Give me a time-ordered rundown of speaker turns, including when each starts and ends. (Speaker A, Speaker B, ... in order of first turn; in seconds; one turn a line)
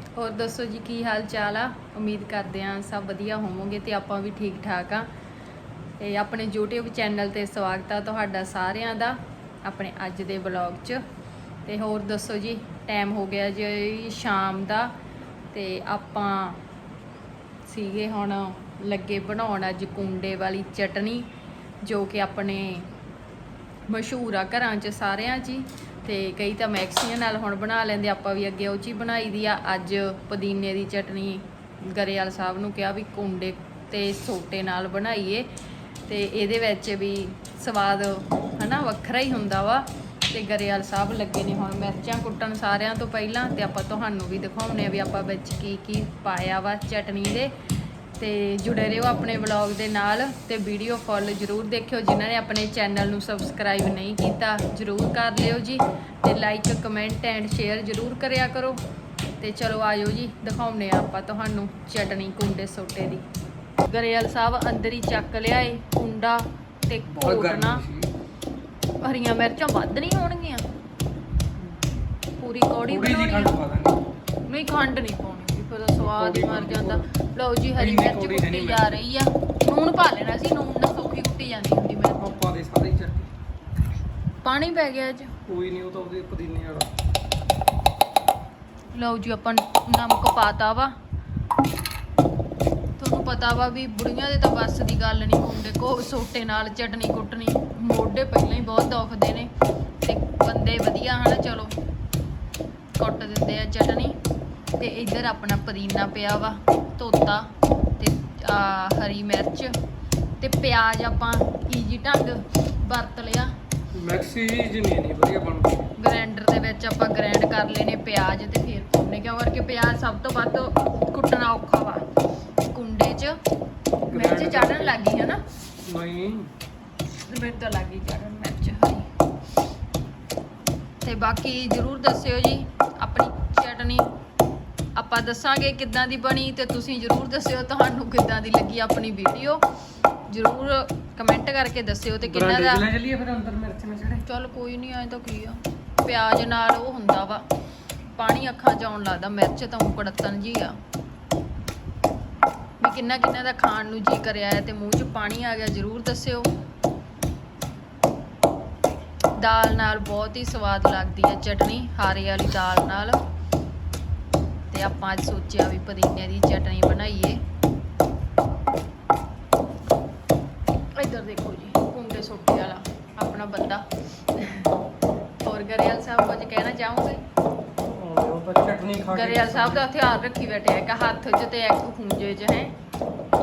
Speaker A: 0.1-5.1
Speaker A: 6.0-11.0
Speaker A: 11.7-14.9
Speaker A: 15.5-16.6
Speaker A: 17.6-21.3
Speaker A: 21.8-22.9
Speaker A: 23.9-35.5
Speaker A: 36.1-47.5
Speaker A: 48.2-58.8
Speaker A: 59.4-63.2
Speaker A: 63.9-67.8
Speaker B: 67.2-68.1
Speaker A: 69.0-70.6
Speaker B: 71.6-71.8
Speaker A: 72.4-73.5
Speaker B: 72.8-74.0
Speaker A: 74.5-82.3
Speaker B: 76.0-77.0
Speaker B: 77.8-79.0
Speaker B: 82.2-83.3
Speaker A: 84.4-85.3
Speaker B: 85.5-86.9
Speaker A: 88.9-90.9
Speaker A: 93.0-99.5
Speaker A: 100.0-101.7
Speaker A: 103.0-104.2
Speaker A: 104.8-109.7
Speaker A: 110.4-113.5
Speaker B: 113.9-115.9
Speaker A: 116.0-122.0
Speaker A: 122.7-123.3
Speaker A: 124.1-125.4
Speaker B: 124.1-125.0
Speaker B: 125.8-126.5
Speaker A: 127.2-129.1
Speaker A: 131.0-134.1
Speaker A: 134.9-139.6
Speaker A: 140.3-142.8
Speaker B: 142.2-144.2
Speaker A: 144.2-147.4
Speaker A: 148.1-150.8
Speaker A: 152.8-156.5
Speaker A: 159.4-163.2
Speaker A: 164.7-167.4
Speaker A: 170.7-174.7
Speaker A: 175.4-177.2
Speaker B: 177.8-179.8
Speaker A: 179.1-182.7